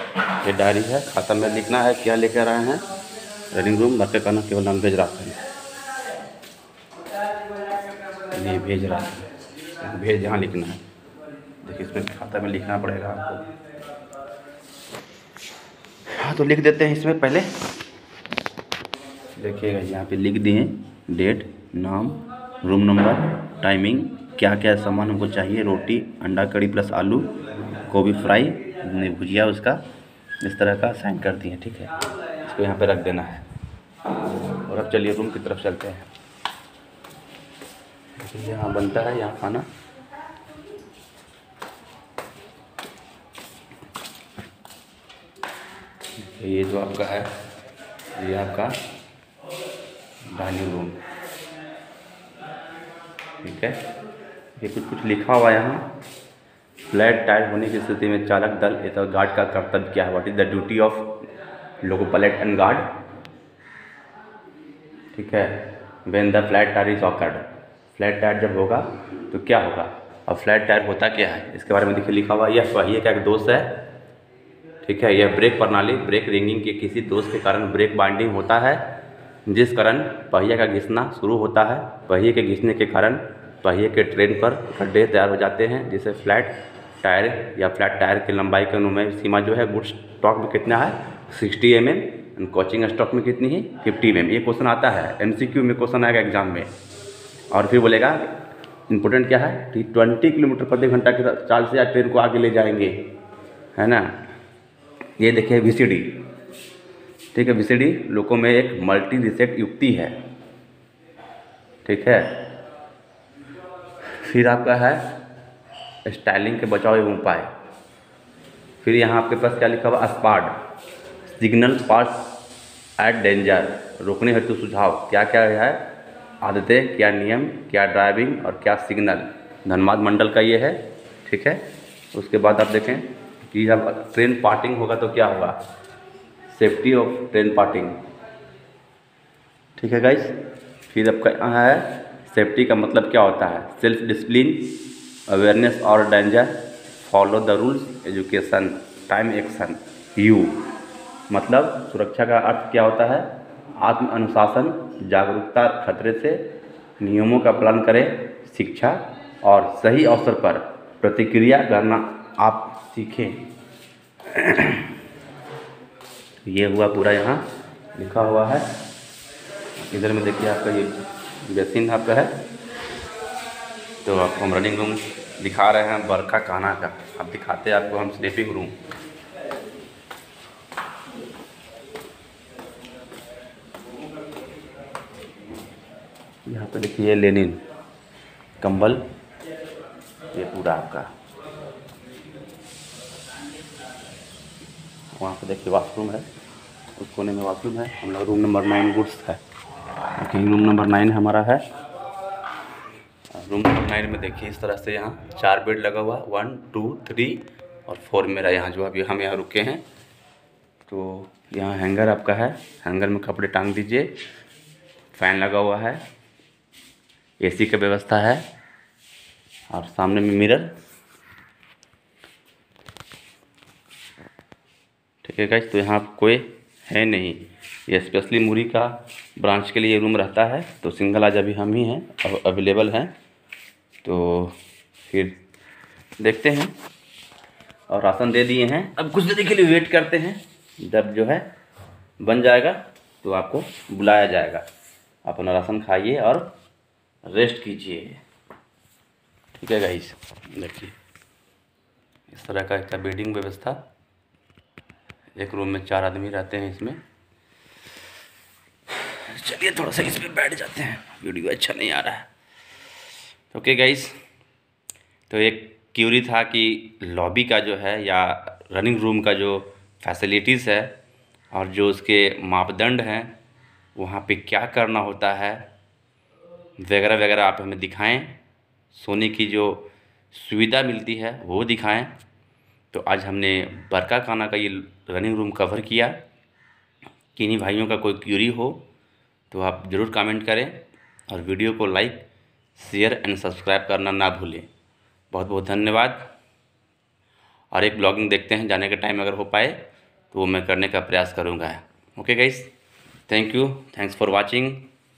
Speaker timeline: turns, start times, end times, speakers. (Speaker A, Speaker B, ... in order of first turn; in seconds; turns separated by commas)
Speaker A: 0.4-2.9, Speaker A: 3.5-5.4, Speaker A: 8.3-9.3, Speaker A: 9.8-10.8, Speaker A: 11.6-13.4, Speaker A: 16.1-17.5, Speaker A: 19.4-29.8, Speaker A: 30.4-33.5, Speaker A: 34.6-36.1, Speaker A: 38.2-39.7, Speaker A: 46.2-47.3, Speaker A: 48.1-48.8, Speaker A: 50.2-51.0, Speaker A: 53.4-53.9, Speaker A: 54.6-55.9, Speaker A: 56.9-61.2, Speaker A: 61.8-62.9, Speaker A: 65.1-73.8, Speaker A: 74.8-79.0, Speaker A: 79.5-96.7, Speaker A: 97.5-98.3, Speaker A: 98.9-103.1, Speaker A: 103.8-104.2, Speaker A: 105.2-106.3, Speaker A: 107.3-110.2, Speaker A: 111.8-112.5, Speaker A: 114.1-115.1, Speaker A: 116.0-117.5, Speaker A: 118.8-120.5, Speaker A: 121.3-122.3, Speaker A: 123.0-125.9, Speaker A: 126.4-135.6, Speaker A: 136.5-138.0, Speaker A: 139.8-150.7, Speaker A: 151.3-163.4, Speaker A: 164.3-164.9, Speaker A: 166.5-168.7, Speaker A: 169.8-172.4, Speaker A: 174.0-178.8, Speaker A: 186.5-187.6, Speaker A: 188.6-189.1, Speaker A: 190.3-191.1, Speaker A: 195.2-196.3, Speaker A: 197.0-199.4, Speaker A: 200.2-201.6, Speaker A: 203.3-209.8, Speaker A: 210.9-214.2, Speaker A: 215.1-216.1, Speaker A: 217.4-218.5, Speaker A: 219.7-220.7, Speaker A: 225.2-233.2, Speaker A: 234.0-235.4, Speaker A: 236.2-236.7, Speaker A: 237.9-241.5, Speaker A: 242.2-244.7, Speaker A: 245.2-246.6, Speaker A: 247.2-248.2, Speaker A: 249.6-251.0, Speaker A: 252.3-253.8, Speaker A: 255.4-257.0, Speaker A: 258.9-262.3, Speaker A: 263.5-264.2, Speaker A: 265.3-270.9, Speaker A: 271.5-273.4, Speaker A: 273.9-275.7, Speaker A: 276.8-278.4, Speaker A: 278.9-282.1, Speaker A: 282.9-286.2, Speaker A: 287.3-288.9, Speaker A: 289.5-294.7, Speaker A: 295.3-296.3, Speaker A: 297.7-302.7, Speaker A: 303.3-304.9